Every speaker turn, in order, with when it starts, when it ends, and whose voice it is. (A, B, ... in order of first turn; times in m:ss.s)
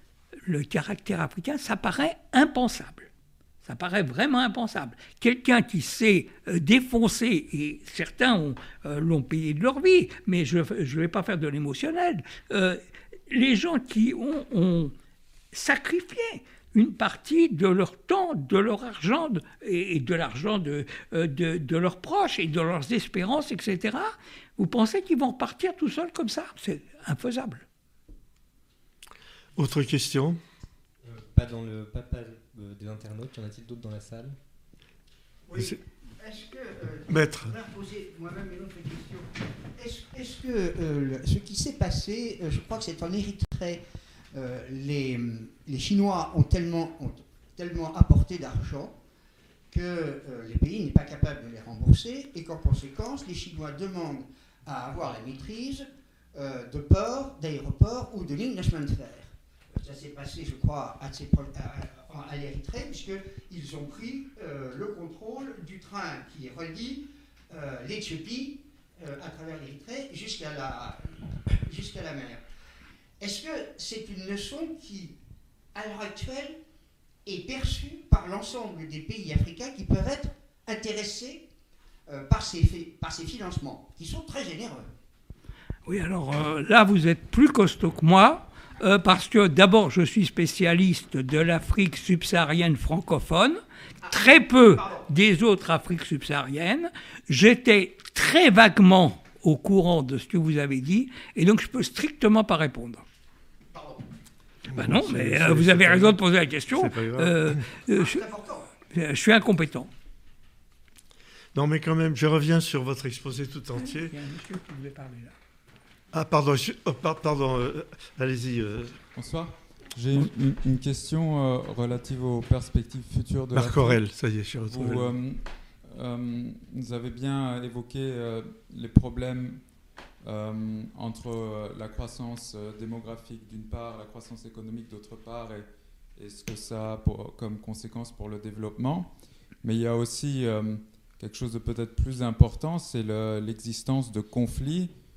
0:00.4-0:03.1 A
0:03.6-0:14.9 A
0:15.5-0:27.6 A
0:29.6-0:30.4 B
0:31.0-0:34.4 C
0:35.5-0:43.8 D
0:37.1-0:37.5 B
0:44.3-0:49.0 D
0:49.7-1:12.4 D
1:13.2-1:15.2 D
1:15.7-1:16.6 D
1:17.2-1:21.4 D
1:22.1-1:24.9 D
1:25.8-1:43.0 A
1:34.0-1:35.0 D
1:43.7-1:44.0 D
1:44.7-1:46.2 B
1:44.7-1:48.2 A
1:46.7-1:47.6 B
1:47.9-1:48.7 D
1:48.9-1:49.9 A
1:51.5-1:54.1 B
1:53.8-1:55.3 A
1:56.1-1:59.0 B
1:59.1-2:04.0 E
2:03.5-2:05.1 B
2:04.7-2:09.6 E
2:10.2-2:19.1 E
2:19.6-2:24.9 E